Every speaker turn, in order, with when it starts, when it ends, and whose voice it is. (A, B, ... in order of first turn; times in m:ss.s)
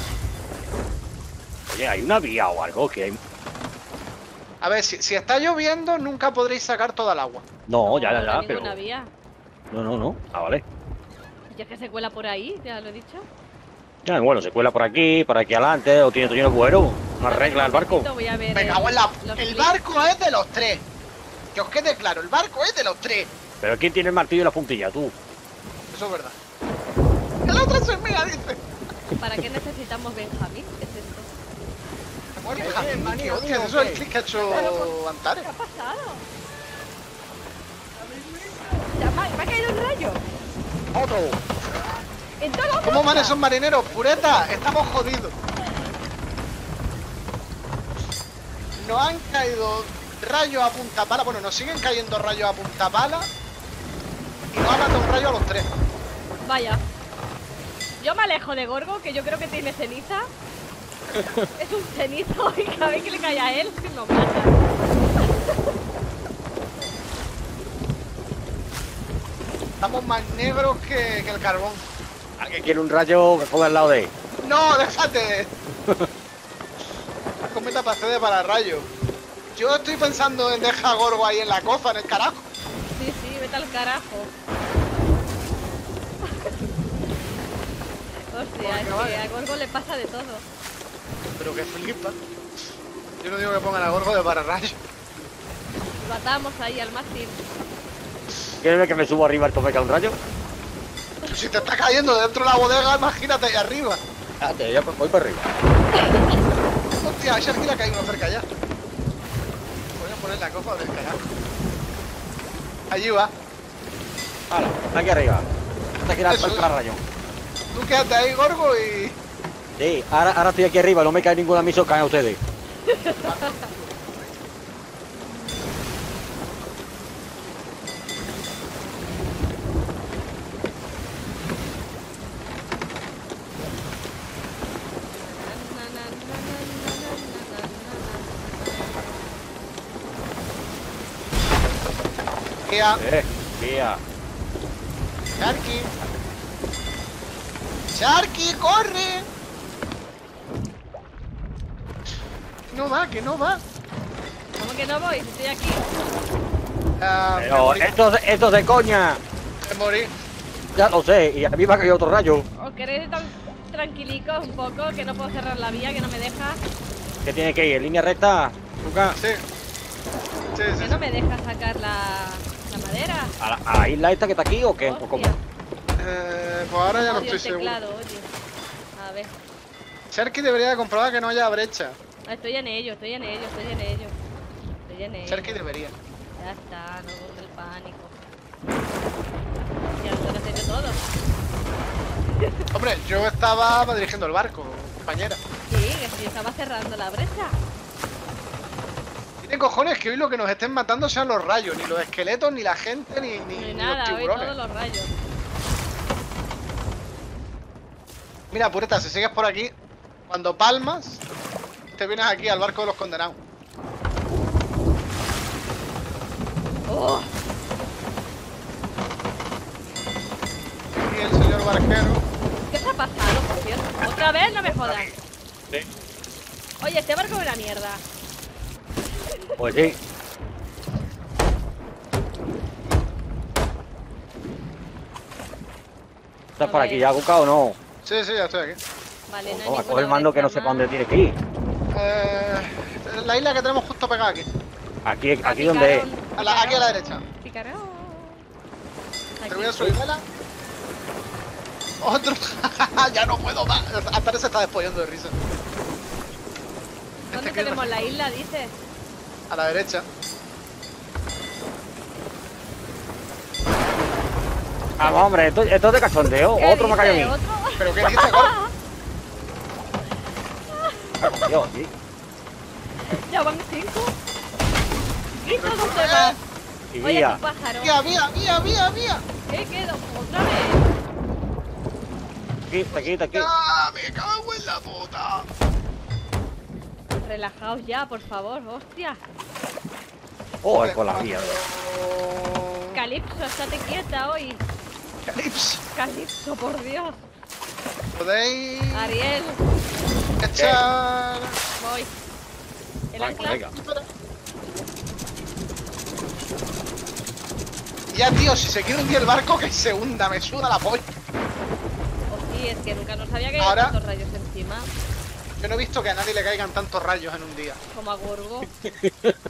0:01.7-0:03.2 A
0:04.6-0:07.4 B
0:07.7-0:08.7 A
0:07.8-0:09.1 C
0:09.7-0:10.6 A
0:11.5-0:13.3 C
0:14.0-0:18.1 A
0:17.2-0:19.8 C
0:18.5-0:20.8 B
0:21.5-0:23.3 B
0:23.6-0:25.1 A
0:25.9-0:26.4 B
0:27.4-0:28.6 B
0:29.2-0:31.3 C
0:32.4-0:35.5 B
0:32.6-0:34.0 A
0:34.4-0:36.2 C
0:38.9-0:40.2 C
0:40.9-0:41.4 A
0:42.4-0:43.4 C
0:42.8-0:45.3 B
0:48.8-0:53.3 B
0:54.5-0:55.7 B
0:56.4-0:56.8 C
0:58.0-1:00.3 C
1:01.1-1:01.5 A
1:01.6-1:04.6 C
1:09.8-1:11.8 B
1:12.4-1:14.1 A
1:14.4-1:15.5 B
1:17.4-1:18.9 B
1:19.5-1:22.5 B
1:22.9-1:24.3 C
1:26.2-1:26.5 C
1:28.3-1:30.4 C
1:28.6-1:29.2 B
1:31.4-1:32.2 B
1:33.2-1:34.8 B
1:36.0-1:37.4 C
1:38.6-1:40.2 A
1:41.3-1:44.0 B
1:44.4-1:45.5 A
1:46.0-1:46.3 C
1:47.0-1:48.5 B
1:50.0-1:51.2 B
1:52.9-1:53.3 B
1:54.5-1:55.4 A
1:56.0-1:57.0 A
1:56.3-1:56.7 B
1:57.7-1:59.2 B
1:59.8-2:02.4 A
2:02.8-2:03.7 C
2:03.2-2:03.6 B
2:15.1-2:19.0 C
2:22.6-2:23.0 B
2:23.0-2:24.0 A
2:25.4-2:25.9 B
2:27.9-2:29.3 B
2:32.7-2:33.6 B
2:34.6-2:35.9 C
2:37.0-2:38.0 B
2:37.4-2:39.2 A
2:39.6-2:40.1 B
2:40.8-2:42.4 A
2:42.6-2:46.6 C
2:47.2-2:49.2 A
2:49.1-2:49.4 B
2:50.5-2:51.0 B
2:50.8-2:53.3 C
2:53.4-2:55.3 A
2:54.8-2:55.4 C
2:56.0-2:57.8 B
2:57.0-2:58.3 C
2:59.0-2:59.3 C
3:00.1-3:02.0 B
3:02.3-3:04.1 C
3:04.9-3:05.6 C
3:05.3-3:05.9 B
3:06.4-3:08.1 C
3:10.0-3:11.0 C
3:12.4-3:12.6 C
3:12.7-3:15.4 B
3:15.7-3:17.6 C
3:19.4-3:24.5 B
3:23.5-3:25.1 C
3:28.5-3:29.7 B
3:30.3-3:31.2 B
3:31.9-3:33.4 B
3:36.9-3:37.3 C
3:40.9-3:42.2 B
3:42.7-3:45.1 C
3:46.8-3:48.0 C
3:49.3-3:49.6 C
3:49.6-3:50.0 A
3:56.6-3:57.8 A
3:56.6-3:57.1 C
3:58.0-3:58.8 B
3:59.3-4:00.9 C
3:59.5-4:01.3 A
4:01.9-4:04.5 B
4:05.0-4:06.0 A
4:05.4-4:08.4 C
4:06.4-4:07.2 B
4:09.4-4:09.9 C
4:09.5-4:10.2 B
4:12.0-4:15.4 B
4:17.2-4:18.7 C
4:17.3-4:18.1 B
4:19.5-4:20.0 B
4:25.0-4:25.3 C
4:25.0-4:27.3 A
4:26.6-4:28.7 C
4:27.8-4:28.5 B
4:30.7-4:31.6 C
4:31.2-4:31.9 A
4:33.0-4:34.1 C
4:35.4-4:36.4 C
4:35.5-4:36.4 B
4:36.9-4:37.4 A
4:37.0-4:38.0 C
4:37.8-4:39.2 B
4:39.5-4:40.9 C
4:42.7-4:43.5 A
4:42.9-4:45.5 B
4:47.2-4:49.2 C
4:50.6-4:51.6 A
4:50.7-4:53.0 B
4:52.9-4:54.6 C
4:55.2-4:55.8 B
4:55.9-4:57.2 C
4:58.1-4:59.2 B
4:58.9-4:59.6 C
5:00.4-5:01.6 B
5:00.5-5:00.8 A
5:01.8-5:02.1 C
5:03.1-5:03.6 C
5:03.2-5:03.7 A
5:03.6-5:04.0 B
5:08.1-5:11.1 B
5:12.3-5:14.9 C
5:13.6-5:13.9 B
5:15.6-5:17.8 B
5:17.9-5:18.7 C
5:18.8-5:19.4 A